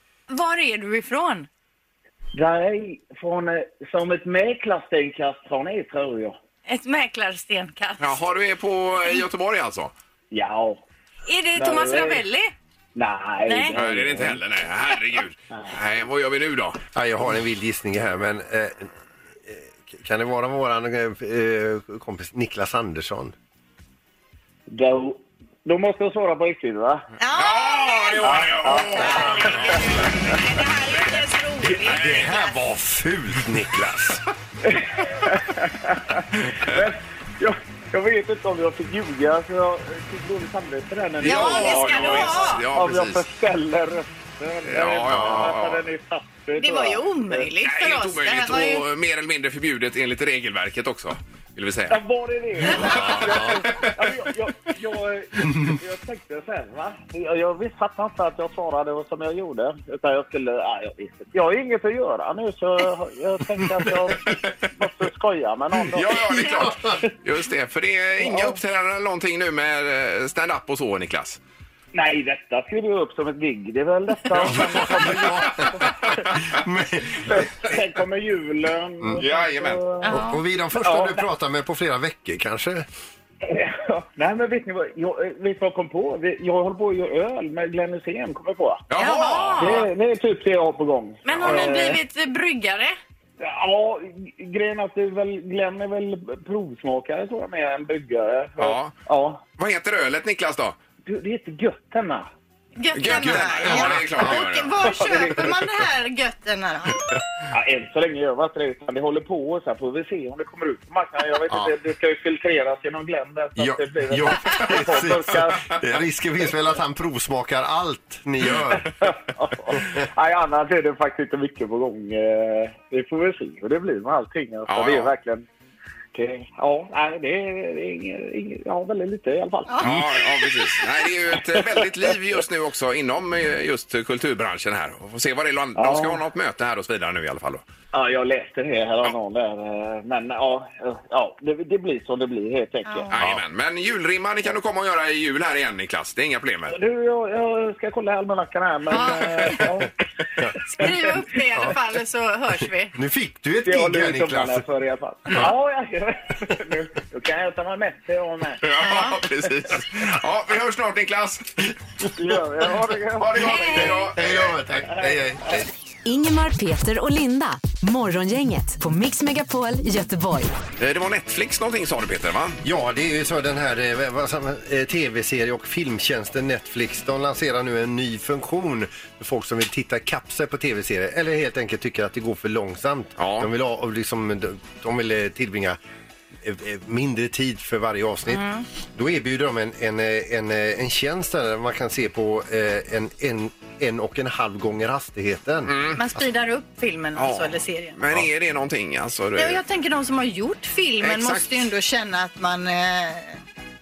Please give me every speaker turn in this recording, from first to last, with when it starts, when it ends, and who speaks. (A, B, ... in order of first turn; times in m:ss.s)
0:00.3-0:01.5 A
0:02.3-0:06.4 B
0:06.7-0:08.2 A
0:08.0-0:09.9 C
0:10.3-0:10.8 B
0:11.3-0:12.5 A
0:11.6-0:12.2 B
0:13.0-0:14.4 B
0:13.4-0:13.8 A
0:13.7-0:16.8 C
0:16.9-0:18.9 D
0:19.5-0:23.3 D
0:24.7-0:27.1 B
0:27.2-0:32.6 A
0:27.4-0:32.3 C
0:28.2-0:29.8 B
0:31.8-0:34.2 D
0:34.6-0:47.5 B
0:36.5-0:36.8 C
0:41.2-0:43.2 C
0:41.2-0:42.6 A
0:44.6-0:45.8 C
0:45.1-0:45.5 D
0:46.6-0:48.8 A
0:47.6-0:52.0 C
0:51.9-1:07.1 B
0:52.8-0:53.9 C
0:53.0-0:53.4 D
1:05.9-1:11.4 C
1:06.5-1:07.0 D
1:08.2-1:08.6 B
1:11.9-1:16.2 B
1:14.4-1:16.4 C
1:14.6-1:15.7 D
1:16.5-1:17.8 D
1:17.2-1:20.2 B
1:19.2-1:19.8 C
1:20.0-1:20.4 A
1:20.1-1:22.8 D
1:20.7-1:21.2 B
1:23.4-1:28.8 B
1:28.9-1:29.9 C
1:29.0-1:29.8 A
1:29.6-1:32.0 B
1:31.2-1:33.0 A
1:33.4-1:39.4 B
1:38.6-1:39.0 C
1:39.6-1:40.8 C
1:41.0-1:42.3 B
1:42.8-1:47.0 A
1:42.9-1:44.8 C
1:43.2-1:44.2 D
1:44.8-1:45.6 B
1:47.5-1:55.7 B
1:53.6-1:59.0 D
1:58.9-2:05.5 B
1:59.7-2:00.0 D
2:04.7-2:05.1 C
2:06.1-2:10.0 B
2:09.7-2:10.5 A
2:09.8-2:17.6 C
2:11.3-2:12.4 B
2:15.8-2:16.2 B
2:17.9-2:23.1 B
2:22.8-2:23.2 A
2:23.1-2:26.8 C
2:26.7-2:29.9 B
2:28.9-2:29.6 A
2:30.6-2:32.9 A
2:32.9-2:34.6 D
2:33.6-2:38.6 B
2:38.6-2:41.7 C
2:38.8-2:39.2 A
2:42.2-2:43.8 B
2:43.2-2:44.6 C
2:43.7-2:45.7 D
2:44.8-2:45.2 B
2:46.0-2:50.5 E
2:50.8-2:52.6 C
2:52.6-3:05.8 D
3:03.2-3:03.5 C
3:06.4-3:15.8 D
3:08.3-3:08.7 A
3:15.7-3:16.0 C
3:16.0-3:18.0 A
3:17.2-3:19.6 C
3:19.4-3:23.4 A
3:21.0-3:21.7 C